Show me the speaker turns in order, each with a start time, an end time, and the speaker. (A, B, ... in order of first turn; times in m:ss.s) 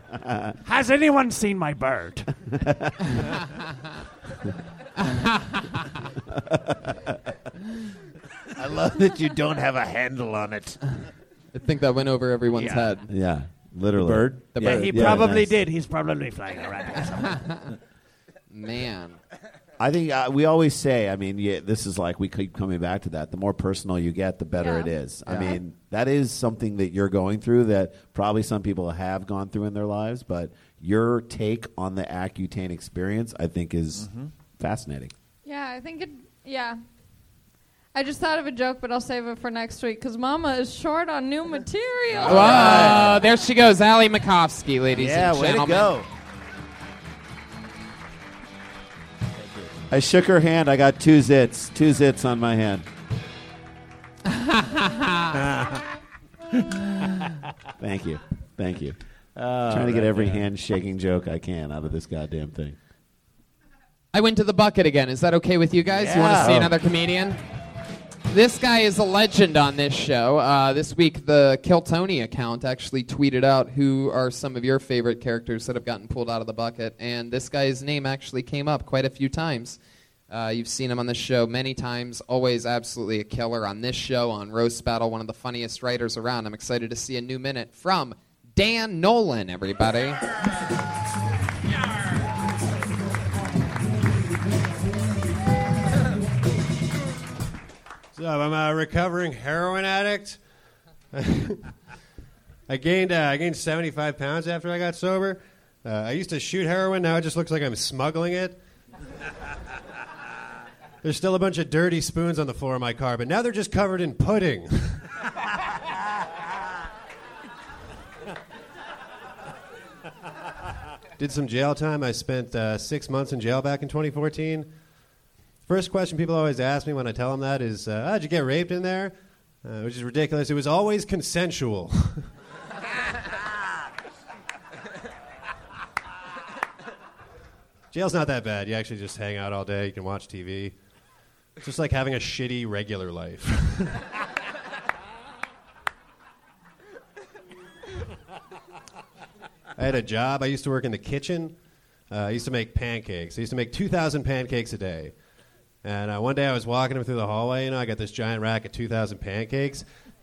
0:00.2-0:00.5 A
0:00.6-0:02.3 B
0:05.0-0:05.7 C
0:08.6-0:10.8 D
0:11.5-0:13.1 C
0:12.6-0:12.8 B
0:13.1-0:15.6 A
0:13.9-0:15.3 D
0:14.5-0:15.1 C
0:14.6-0:17.4 B
0:17.3-0:17.6 C
0:18.5-0:19.2 C
0:19.8-0:35.1 A
0:24.6-0:24.9 E
0:25.3-0:25.5 C
0:33.9-0:34.3 D
0:35.4-0:36.8 E
0:37.9-0:42.9 E
0:42.1-0:45.9 C
0:42.2-0:43.2 D
0:42.2-0:43.2 A
0:44.9-0:46.1 D
0:49.9-0:52.8 A
0:54.3-0:55.4 C
0:57.8-0:59.0 A
0:59.4-1:00.4 D
0:59.7-1:02.8 A
1:04.1-1:07.4 C
1:06.0-1:06.7 A
1:06.1-1:06.7 D
1:08.3-1:19.8 C
1:20.3-1:30.2 C
1:38.1-1:40.4 F
1:41.1-1:41.6 F
1:42.7-1:48.6 F
1:51.0-1:55.0 F
2:01.2-2:04.7 F
2:05.7-2:12.2 F
2:17.9-2:20.7 F
2:21.6-2:23.9 F
2:29.8-2:31.5 F
2:32.1-2:35.1 F
2:35.8-2:39.8 F